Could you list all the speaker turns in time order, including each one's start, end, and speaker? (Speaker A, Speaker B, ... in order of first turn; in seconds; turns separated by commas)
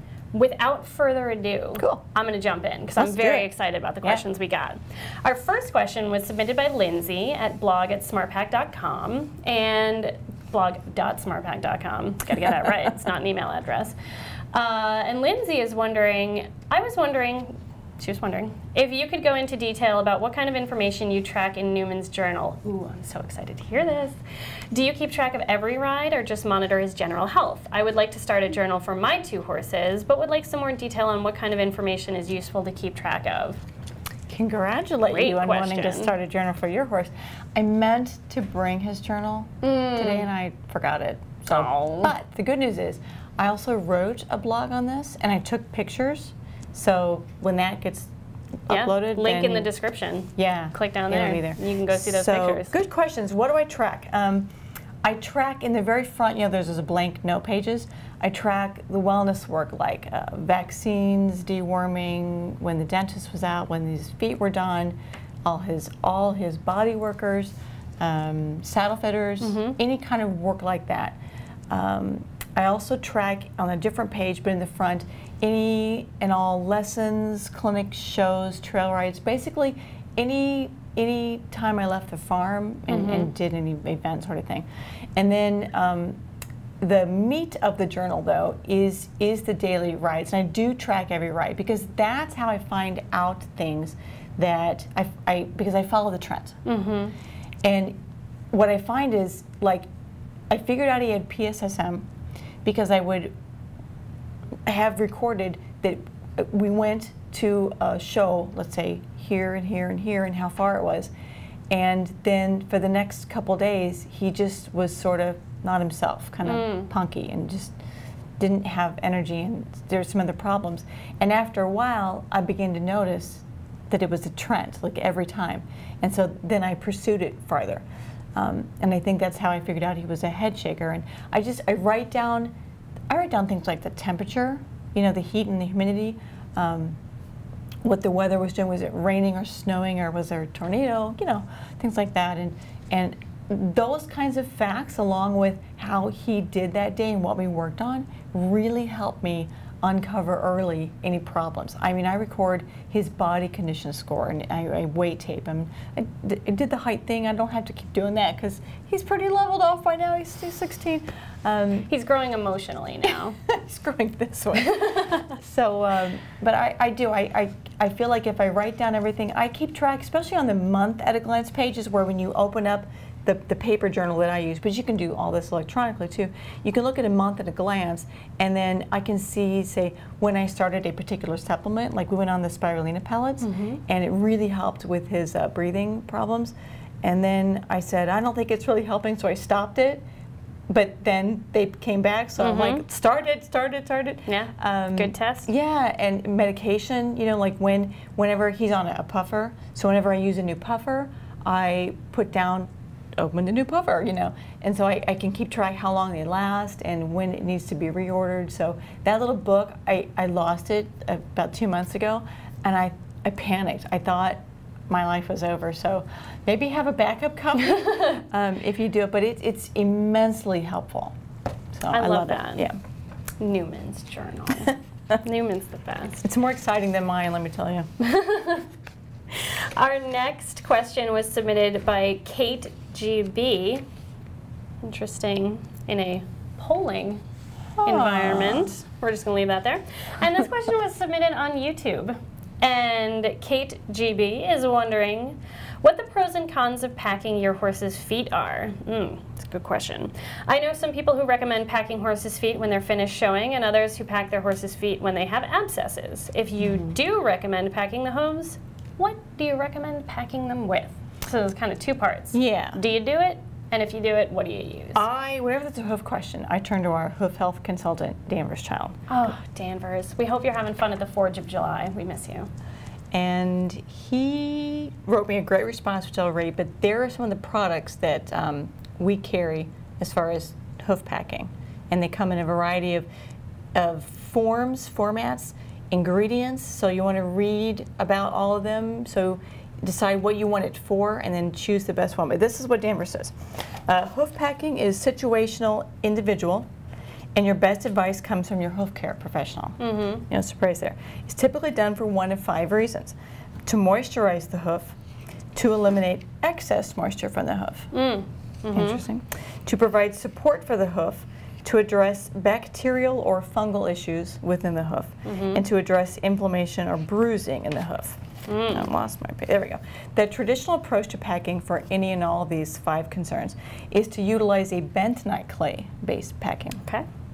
Speaker A: 0.3-13.9, Speaker B: 1.8-2.0, Speaker B: 2.9-3.5, Speaker A: 14.5-24.2, Speaker A: 24.7-33.6, Speaker B: 34.3-48.1, Speaker A: 35.1-36.1, Speaker A: 39.6-40.3, Speaker A: 41.5-42.1, Speaker B: 48.7-49.7, Speaker A: 48.7-52.8, Speaker B: 50.4-54.5, Speaker B: 55.0-71.2, Speaker A: 69.4-69.8, Speaker B: 71.7-86.2, Speaker A: 82.9-83.3, Speaker B: 86.8-96.6, Speaker A: 96.6-97.1, Speaker B: 97.6-98.0, Speaker B: 98.5-99.9, Speaker B: 100.5-102.0, Speaker B: 102.6-103.3, Speaker B: 104.7-111.1, Speaker B: 111.7-117.7, Speaker A: 116.4-116.9, Speaker B: 118.4-127.8, Speaker B: 128.3-132.5, Speaker B: 133.1-136.9, Speaker B: 137.8-161.9, Speaker A: 161.9-163.4, Speaker B: 163.4-190.0, Speaker A: 164.6-165.2, Speaker A: 183.4-183.8, Speaker B: 190.7-221.1, Speaker A: 192.4-192.8, Speaker A: 194.3-195.5, Speaker B: 221.7-222.8, Speaker A: 221.9-222.7, Speaker A: 223.4-226.2, Speaker B: 226.2-227.9, Speaker A: 228.0-228.7, Speaker A: 229.3-233.8, Speaker A: 234.8-237.2, Speaker B: 237.8-238.7, Speaker A: 237.8-265.0, Speaker B: 256.6-256.9, Speaker B: 262.3-262.8, Speaker B: 264.9-269.1, Speaker A: 269.1-272.5, Speaker B: 273.1-283.1, Speaker B: 283.7-296.7, Speaker B: 297.4-304.9, Speaker A: 299.8-300.2, Speaker B: 305.5-307.9, Speaker A: 307.9-309.0, Speaker B: 308.7-326.8, Speaker A: 315.2-315.6, Speaker A: 318.5-318.9